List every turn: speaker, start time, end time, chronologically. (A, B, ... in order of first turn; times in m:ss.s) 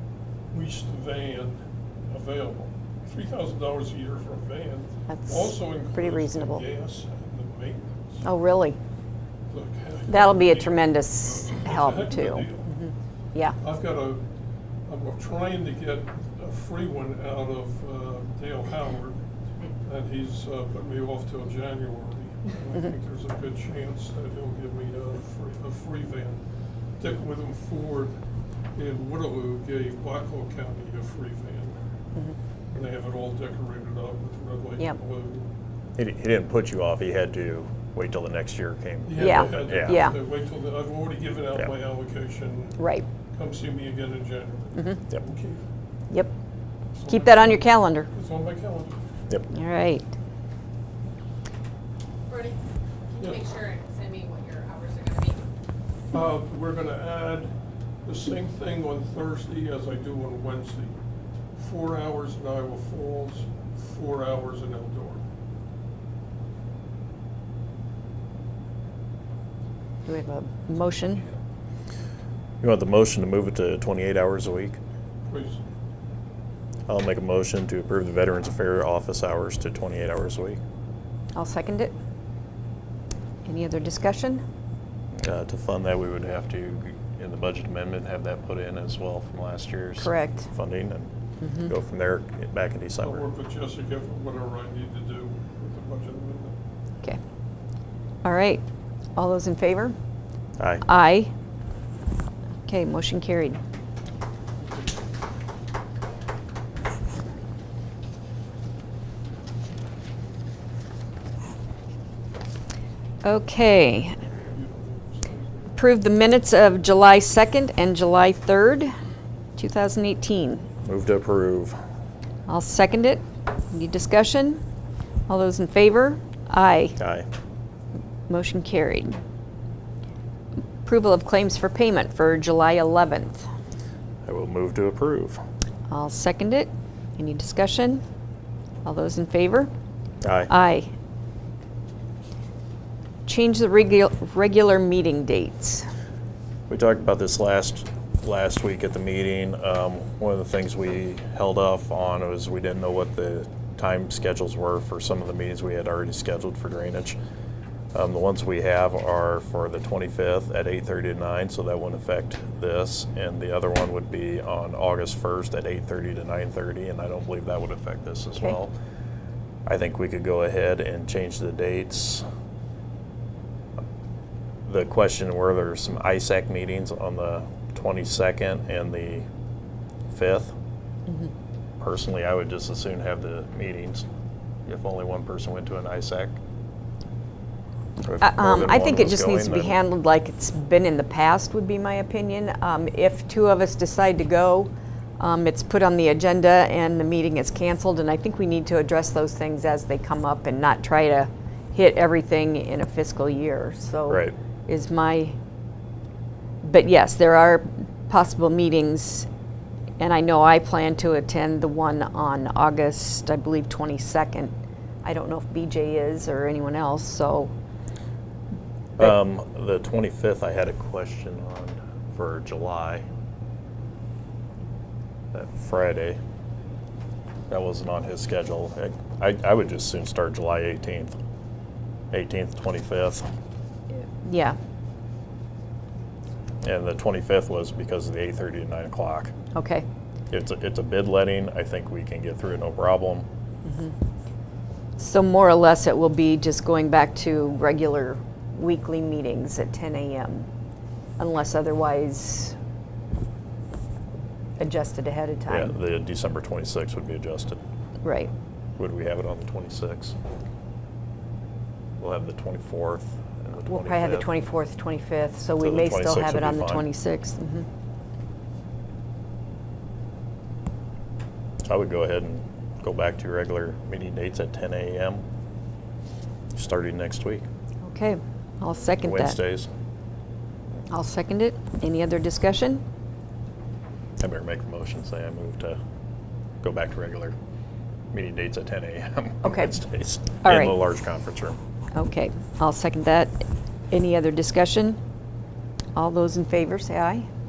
0:00.5-0:01.6 A
0:02.1-0:08.2 A
0:05.1-0:06.6 B
0:08.2-0:08.8 B
0:09.5-0:12.7 A
0:10.1-0:13.6 B
0:13.6-0:14.2 A
0:14.9-0:19.2 A
0:19.8-0:26.4 A
0:27.0-0:28.2 A
0:28.8-0:31.8 A
0:32.7-0:35.5 A
0:36.0-0:40.1 C
0:39.1-0:42.8 A
0:39.2-0:40.2 B
0:42.8-0:43.1 B
0:43.3-0:45.6 A
0:44.8-0:45.0 B
0:47.0-0:49.0 A
0:47.0-0:48.1 B
0:49.5-0:50.1 B
0:52.3-0:55.4 D
0:53.2-0:53.5 A
0:56.1-0:57.5 A
0:58.0-1:00.9 A
1:01.6-1:05.2 A
1:10.1-1:11.2 B
1:12.6-1:14.8 C
1:15.3-1:15.6 A
1:16.9-1:20.6 C
1:21.3-1:21.9 B
1:23.4-1:24.4 B
1:25.2-1:31.1 C
1:30.0-1:30.5 B
1:31.4-1:31.7 B
1:31.6-1:33.2 C
1:33.0-1:36.6 A
1:38.2-1:38.6 B
1:39.2-1:40.0 B
1:40.6-1:40.8 C
1:40.8-1:41.3 B
1:42.7-1:43.6 B
1:44.6-1:45.1 A
1:53.2-1:54.2 B
1:54.3-1:55.7 A
1:55.8-1:58.9 B
1:59.6-2:00.7 B
2:00.8-2:01.8 C
2:02.5-2:04.6 B
2:05.3-2:07.0 B
2:07.0-2:07.3 C
2:08.3-2:09.2 B
2:10.8-2:13.5 B
2:14.2-2:15.4 C
2:15.9-2:18.0 B
2:18.8-2:19.7 B
2:20.2-2:20.5 C
2:20.5-2:20.9 B
2:23.3-2:25.9 B
2:26.7-2:37.2 C
2:37.9-2:48.7 C
2:49.7-2:52.2 C
2:54.7-2:59.3 C
3:00.1-3:00.5 C
3:01.8-3:04.0 C
3:04.7-3:06.4 C
3:08.0-3:09.8 C
3:08.2-3:25.4 B
3:24.1-3:24.4 C
3:26.6-3:29.3 B
3:30.0-3:34.5 B
3:35.0-3:37.5 B
3:39.0-3:43.0 C
3:45.3-3:46.2 C
3:47.5-3:51.1 C
3:52.1-3:53.3 C
3:53.9-3:54.6 B
3:56.6-3:59.3 C
3:59.6-3:59.8 B
4:00.3-4:03.3 C
4:03.6-4:03.9 B
4:05.0-4:10.5 B
4:11.2-4:12.6 B
4:14.6-4:15.8 B
4:15.5-4:17.6 C
4:18.0-4:18.3 B
4:18.8-4:20.2 C
4:22.0-4:24.3 C
4:23.7-4:27.7 B
4:25.6-4:26.9 C
4:31.6-4:35.2 C
4:36.6-4:37.5 C
4:37.8-4:39.4 B
4:39.0-4:39.7 C
4:40.9-4:42.8 B
4:44.2-4:45.8 C
4:46.6-4:47.4 C
4:48.1-4:51.6 C
4:49.4-4:49.8 B
4:50.4-4:50.8 B
4:52.0-4:53.4 B
4:53.9-4:55.0 B
4:56.0-4:57.2 B